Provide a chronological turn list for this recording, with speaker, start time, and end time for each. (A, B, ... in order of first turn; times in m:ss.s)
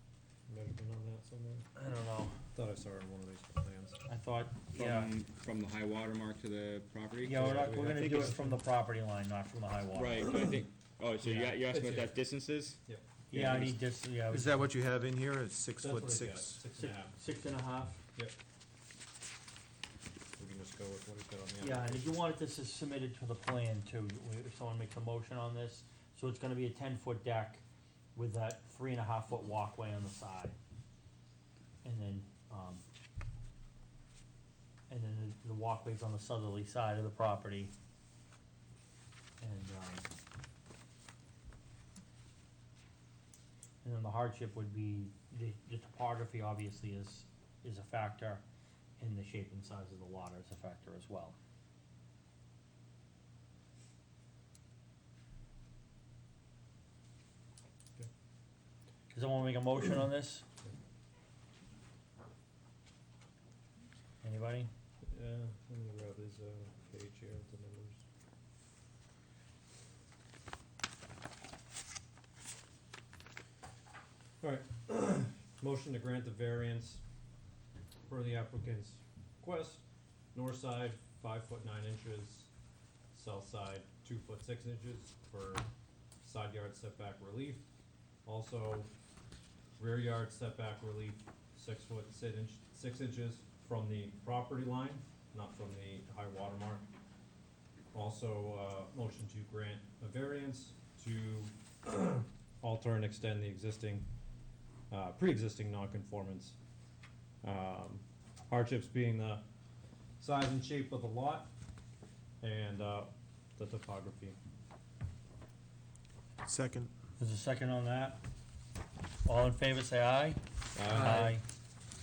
0:00.5-0:01.7 A
0:01.8-0:02.4 B
0:02.5-0:04.0 A
0:04.1-0:05.1 B
0:04.7-0:07.5 C
0:07.2-0:10.2 B
0:07.3-0:08.6 A
0:09.9-0:12.8 C
0:11.2-0:11.5 B
0:11.3-0:12.2 A
0:12.8-0:13.8 A
0:13.3-0:14.7 B
0:14.3-0:16.6 D
0:15.8-0:17.2 A
0:16.8-0:18.0 B
0:20.4-0:22.2 A
0:21.6-0:27.6 B
0:28.1-0:30.6 B
0:31.8-0:32.8 B
0:34.9-0:37.7 B
0:39.4-0:40.1 B
0:43.8-0:48.4 B
0:49.0-0:51.4 B
0:59.1-1:00.4 B
1:04.2-1:04.7 B
1:05.0-1:08.0 A
1:14.4-1:17.0 A
1:18.1-1:19.8 A
1:20.3-1:22.5 A
1:23.1-1:25.6 A
1:26.2-1:27.6 A
1:28.2-1:28.9 A
1:29.8-1:36.9 A
1:37.9-1:44.1 A
1:44.9-1:46.6 A
1:47.4-1:49.4 A
1:50.2-1:51.5 A
1:52.4-1:54.4 A
1:56.4-1:56.9 D
1:57.2-1:58.2 B
1:59.2-2:01.4 B
2:00.7-2:01.4 A